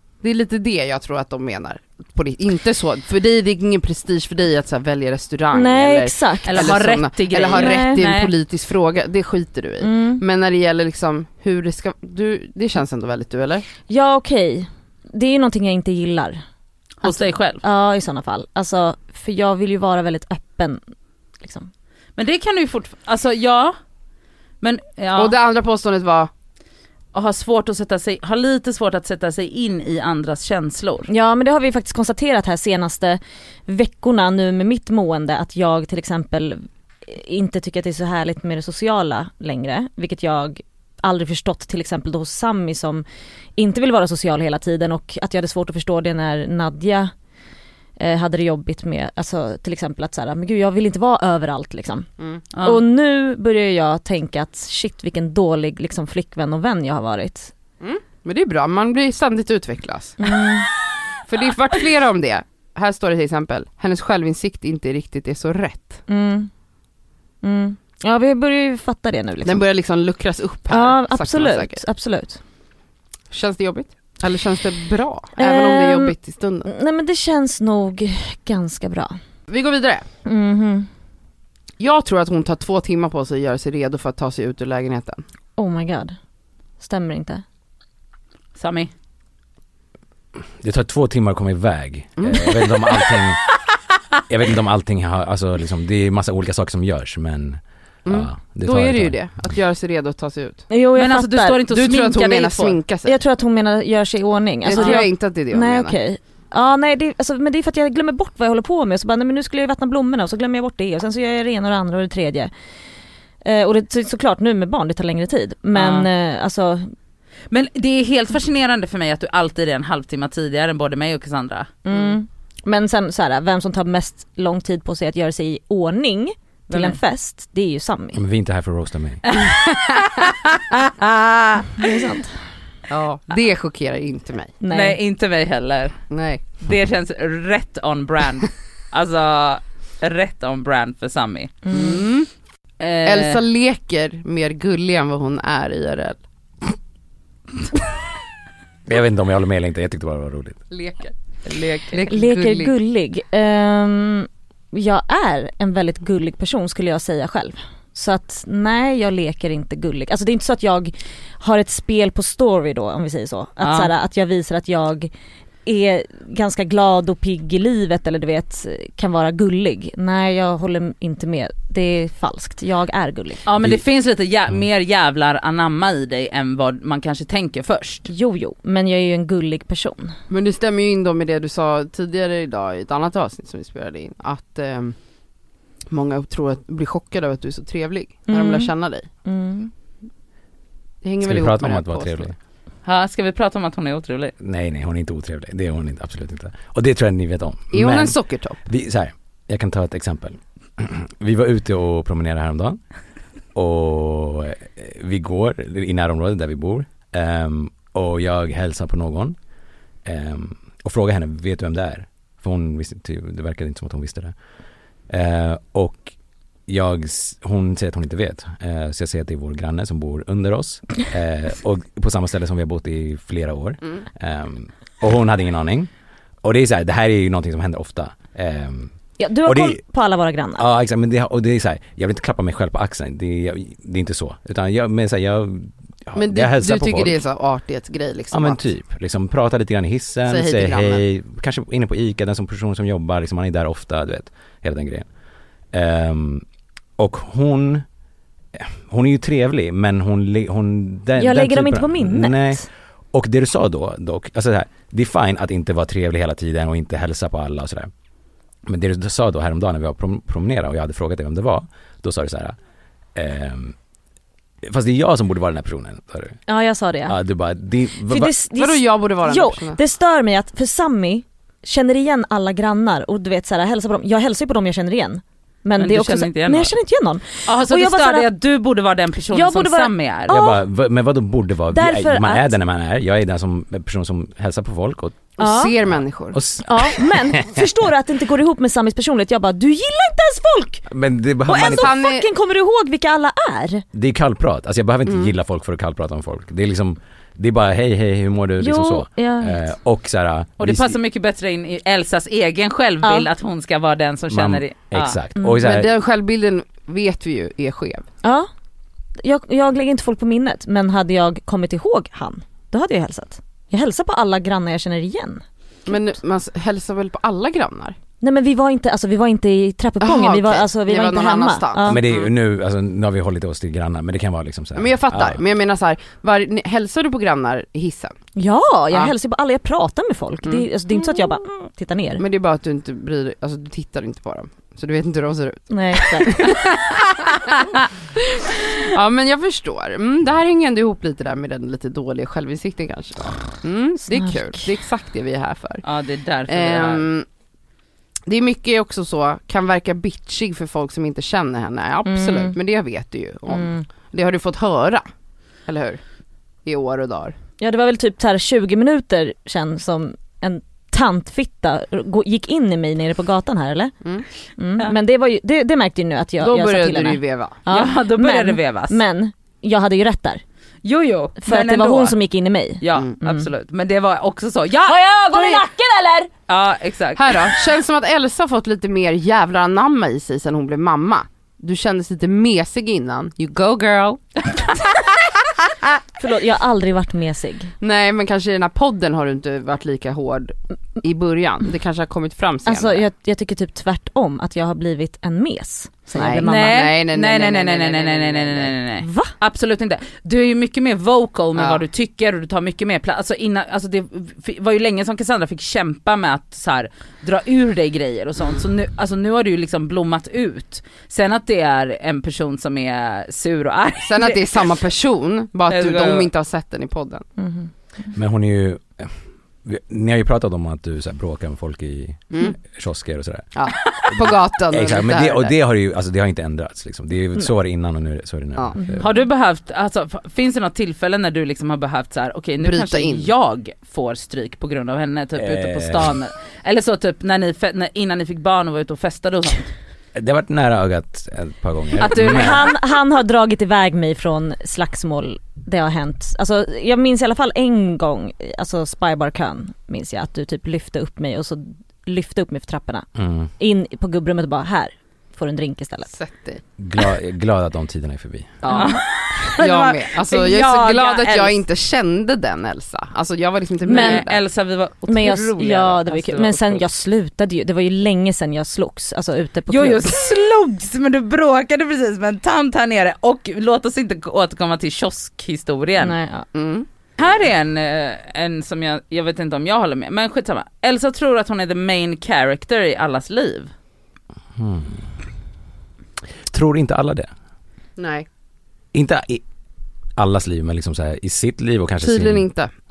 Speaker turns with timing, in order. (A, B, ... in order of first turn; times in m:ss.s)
0:00.2-0:13.7 A
0:05.5-0:06.8 B
0:06.5-0:08.3 C
0:07.5-0:08.0 B
0:09.8-0:10.2 B
0:13.9-0:16.4 B
0:17.0-0:17.6 C
0:17.0-0:20.8 B
0:21.4-0:21.7 B
0:22.2-0:23.8 C
0:24.6-0:25.4 C
0:25.2-0:26.3 A
0:27.1-0:31.1 C
0:31.1-0:43.0 B
0:43.6-0:47.1 B
0:48.0-0:52.1 B
0:52.5-0:52.8 C
0:52.6-0:57.5 B
0:57.8-1:00.4 A
1:00.2-1:00.7 B
1:01.3-1:06.0 A
1:06.1-1:06.5 B
1:07.4-1:09.6 B
1:09.4-1:11.8 A
1:10.7-1:12.4 B
1:13.3-1:16.7 A
1:15.4-1:19.2 B
1:19.5-1:20.1 A
1:20.2-1:20.9 B
1:21.8-1:25.2 A
1:25.6-1:26.2 B
1:26.8-1:27.4 B
1:28.6-1:28.9 C
1:30.6-1:33.4 D
1:32.2-1:32.8 A
1:34.3-1:39.2 D
1:38.0-1:40.6 A
1:40.7-1:41.6 B
1:41.0-1:42.8 C
1:41.7-1:43.2 A
1:43.0-1:52.5 B
1:44.6-1:46.0 A
1:44.7-1:45.0 C
1:53.4-1:56.9 B
1:55.7-1:56.1 C
1:57.5-2:01.7 C
2:01.8-2:08.2 B
2:06.7-2:07.0 C
2:08.1-2:09.2 D
2:09.3-2:11.9 C
2:11.8-2:12.4 B
2:12.9-2:14.6 A
2:14.6-2:15.0 B
2:14.7-2:16.0 C
2:16.1-2:16.4 A
2:16.6-2:21.6 C
2:21.6-2:22.0 B
2:21.7-2:22.3 A
2:22.8-2:23.4 C
2:23.0-2:26.2 A
2:28.9-2:30.6 D
2:30.7-2:32.7 A
2:31.5-2:32.1 C
2:32.1-2:45.1 B
2:43.6-2:43.9 C
2:45.7-2:53.4 B
2:53.5-2:58.1 C
2:58.1-3:00.2 B
3:00.3-3:05.0 A
3:05.9-3:09.1 A
3:08.3-3:08.7 B
3:09.2-3:09.7 B
3:11.0-3:12.3 A
3:11.2-3:12.4 D
3:12.8-3:14.3 C
3:14.4-3:22.8 D
3:17.7-3:18.6 A
3:23.5-3:29.4 D
3:30.0-3:34.3 D
3:35.1-3:36.1 D
3:36.7-3:45.9 D
3:46.4-3:48.9 D
3:49.2-3:50.6 B
3:49.4-3:49.8 D
3:50.6-3:57.2 D
3:56.2-3:58.6 A
3:58.3-4:05.1 D
4:00.3-4:01.0 A
4:05.7-4:06.4 D
4:07.0-4:07.8 D
4:08.5-4:17.9 D
4:11.2-4:12.7 B
4:18.7-4:22.6 D
4:23.2-4:23.8 D
4:24.6-4:26.4 D
4:26.5-4:27.2 B
4:27.1-4:28.3 D
4:28.1-4:38.3 B
4:28.6-4:29.8 A
4:35.8-4:36.8 C
4:37.4-4:40.4 C
4:39.3-4:40.6 B
4:40.3-4:45.3 D
4:41.7-4:42.5 B
4:45.4-4:46.4 A
4:45.4-4:45.7 B
4:45.9-4:47.7 D
4:46.6-4:50.9 B
4:50.9-4:51.9 D
4:51.5-4:53.8 B
4:51.5-4:52.3 A
4:53.9-5:01.0 D
4:55.1-4:55.3 A
4:58.6-4:59.7 B
5:00.6-5:05.2 C
5:03.0-5:03.3 B
5:04.3-5:05.9 D
5:05.6-5:08.0 A
5:08.2-5:08.5 B
5:09.2-5:15.4 B
5:15.9-5:18.0 A
5:18.2-5:22.0 B
5:20.0-5:22.3 A
5:21.9-5:25.4 D
5:24.8-5:28.1 A
5:28.4-5:32.2 B
5:32.2-5:37.7 A
5:35.7-5:36.4 B
5:38.8-5:45.8 A
5:44.1-5:44.6 B
5:45.8-5:47.0 C
5:46.5-5:47.3 A
5:48.3-5:55.0 A
5:52.0-5:52.6 B
5:53.5-5:53.8 B
5:55.7-5:56.0 A
5:56.6-5:57.4 A
5:57.6-6:03.9 B
6:04.6-6:10.4 B
6:06.4-6:07.6 A
6:07.7-6:09.0 C
6:10.8-6:12.2 C
6:11.4-6:13.5 B
6:12.8-6:15.6 C
6:14.9-6:16.3 B
6:16.5-6:17.4 C
6:17.2-6:24.6 A
6:26.2-6:27.7 B
6:27.8-6:33.1 A
6:32.7-6:36.9 B
6:36.1-6:38.7 A
6:36.4-6:54.7 C
6:39.0-6:39.3 B
6:41.6-6:41.8 A
6:54.0-6:57.3 A
6:55.7-6:56.3 C
6:57.4-6:57.7 B
6:58.1-6:59.1 D
6:59.6-7:03.5 D
7:03.6-7:05.5 A
7:04.0-7:09.1 D
7:08.9-7:09.2 B
7:09.0-7:19.7 C
7:12.6-7:13.3 A
7:15.4-7:16.2 D
7:20.2-7:22.6 D
7:22.0-7:22.7 C
7:22.2-7:33.1 B
7:33.2-7:33.5 D
7:33.6-7:36.1 B
7:36.1-7:36.6 A
7:36.8-7:38.6 D
7:38.6-7:39.0 A
7:38.7-7:41.6 C
7:39.6-7:44.4 A
7:43.9-7:44.2 B
7:43.9-7:46.8 C
7:45.1-7:50.2 B
7:49.7-7:56.2 C
7:56.0-7:56.5 B
7:56.5-7:56.9 A
7:57.2-8:03.7 C
8:04.6-8:05.1 D
8:06.5-8:07.3 D
8:08.0-8:08.3 A
8:08.9-8:09.4 D
8:10.2-8:12.5 D
8:12.0-8:12.7 A